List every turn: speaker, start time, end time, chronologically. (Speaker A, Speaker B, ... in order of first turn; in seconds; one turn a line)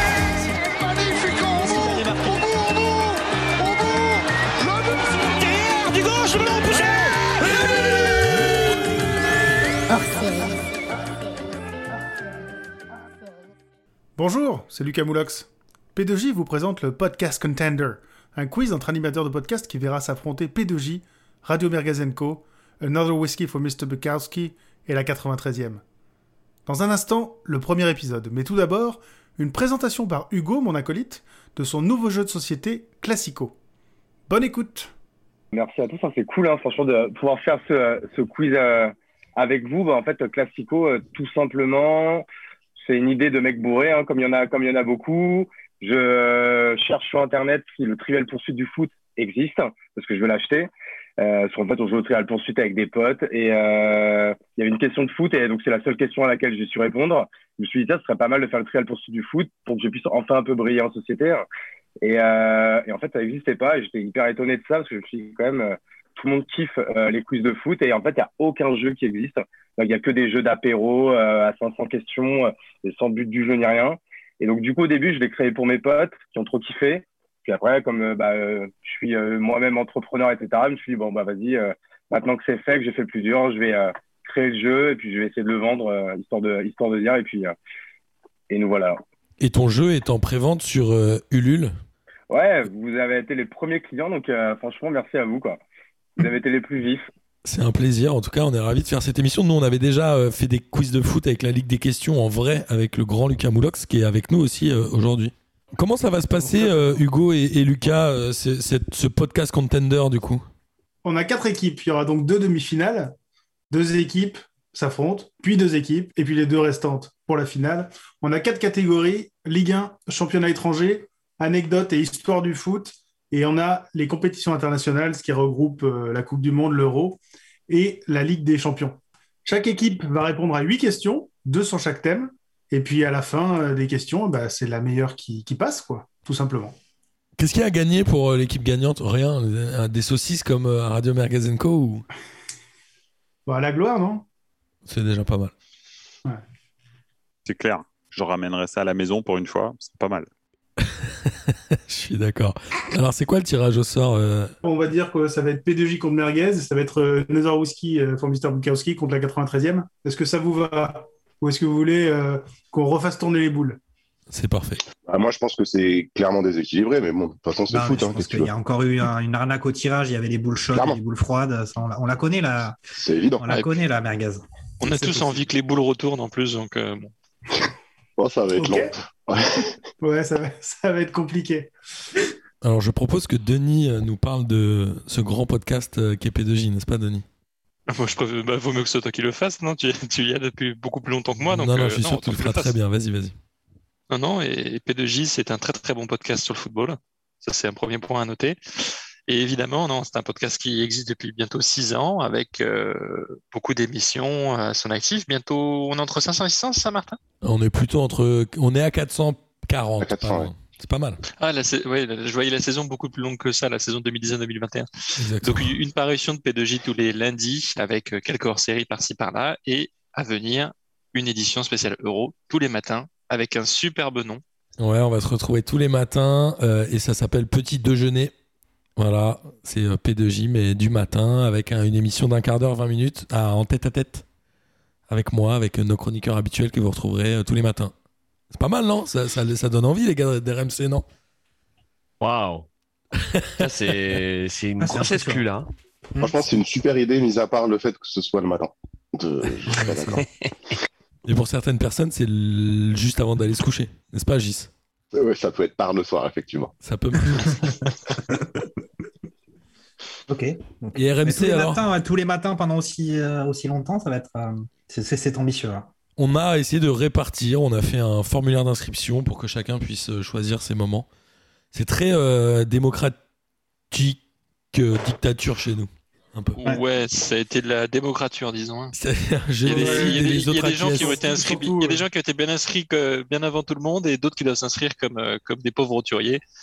Speaker A: 0.3-9.1
Speaker A: 9.9-10.6
Speaker B: 14.2-25.8
Speaker B: 26.6-33.6
Speaker B: 34.3-34.9
Speaker C: 35.5-42.2
Speaker C: 42.8-61.4
Speaker C: 62.0-87.5
Speaker C: 88.5-89.0
Speaker D: 89.4-91.7
Speaker C: 92.3-95.6
Speaker C: 96.2-97.1
Speaker D: 97.4-110.4
Speaker B: 106.4-106.9
Speaker B: 111.0-113.1
Speaker B: 113.7-136.7
Speaker D: 137.4-142.1
Speaker B: 143.5-144.2
Speaker D: 144.8-145.5
Speaker E: 147.4-150.3
Speaker D: 150.8-151.3
Speaker D: 151.9-154.5
Speaker B: 154.6-163.8
Speaker D: 164.3-164.8
Speaker F: 165.1-168.5
Speaker G: 167.7-172.8
Speaker F: 173.0-173.4
Speaker G: 173.4-175.4
Speaker H: 174.8-177.1
Speaker F: 178.2-179.7
Speaker B: 178.5-178.9
Speaker B: 180.0-181.7
Speaker D: 182.6-187.2
Speaker H: 187.9-192.7
Speaker D: 191.5-193.3
Speaker H: 194.1-198.6
Speaker H: 199.3-207.2
Speaker D: 207.4-211.2
Speaker F: 210.0-210.5
Speaker H: 211.4-224.4
Speaker D: 215.2-215.8
Speaker D: 224.8-228.3
Speaker D: 229.0-234.2
Speaker D: 235.1-237.9
Speaker D: 238.5-241.0
Speaker I: 242.2-242.7
Speaker D: 243.2-243.7
Speaker I: 243.6-245.7
Speaker G: 244.8-245.4
Speaker F: 246.2-250.2
Speaker D: 249.7-250.2
Speaker D: 251.2-254.7
Speaker F: 255.1-256.7
Speaker D: 256.8-257.8
Speaker G: 260.3-265.9
Speaker D: 260.9-261.8
Speaker D: 266.2-271.1
Speaker D: 271.7-273.1
Speaker D: 273.9-274.2
Speaker D: 274.7-276.6
Speaker H: 276.6-278.9
Speaker D: 278.9-281.2
Speaker H: 279.6-286.4
Speaker B: 279.7-280.3
Speaker B: 280.9-282.1